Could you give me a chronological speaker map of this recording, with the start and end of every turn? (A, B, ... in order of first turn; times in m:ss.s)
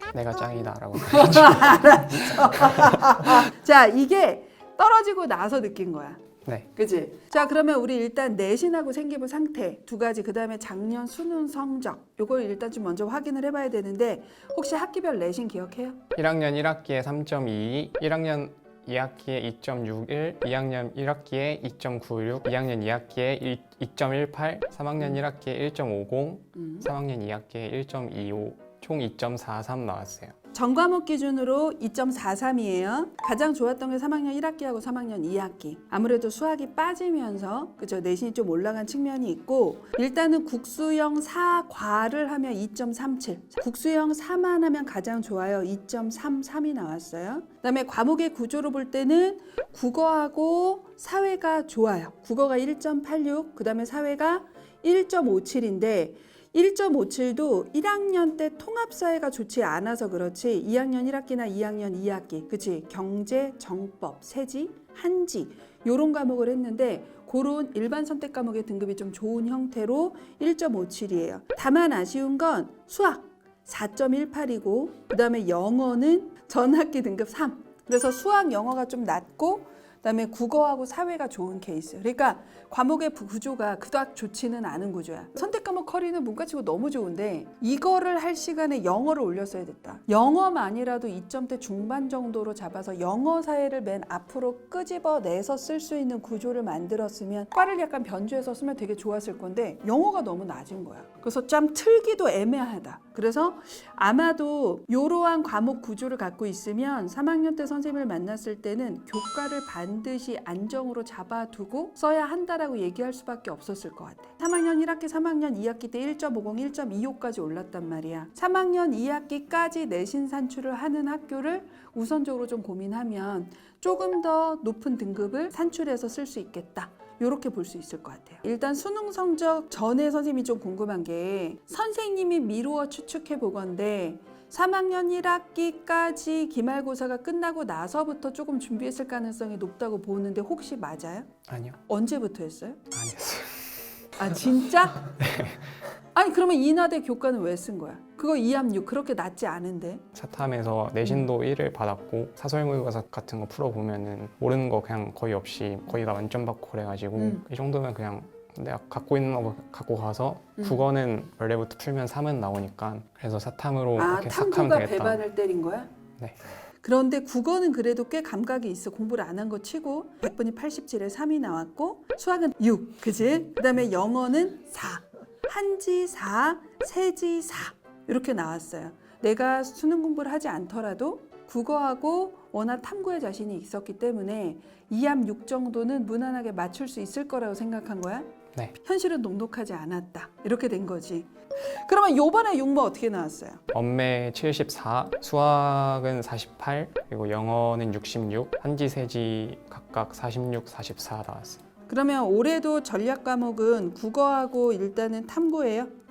0:00.1-0:02.0 A
0:01.1-0:06.2 B
0:06.8-0:16.0 B
0:16.2-0:30.3 A
0:26.6-0:26.9 B
0:30.5-2:21.3 B
2:21.5-2:21.8 A
2:21.9-2:22.8 B
2:22.9-2:23.8 A
2:24.2-2:25.1 B
2:25.2-2:25.6 A
2:26.1-2:30.0 B
2:30.2-2:45.2 A
2:37.2-2:37.4 B
2:44.0-2:45.9 B
2:46.8-3:13.6 B
3:13.7-3:21.6 A
3:21.9-3:25.9 B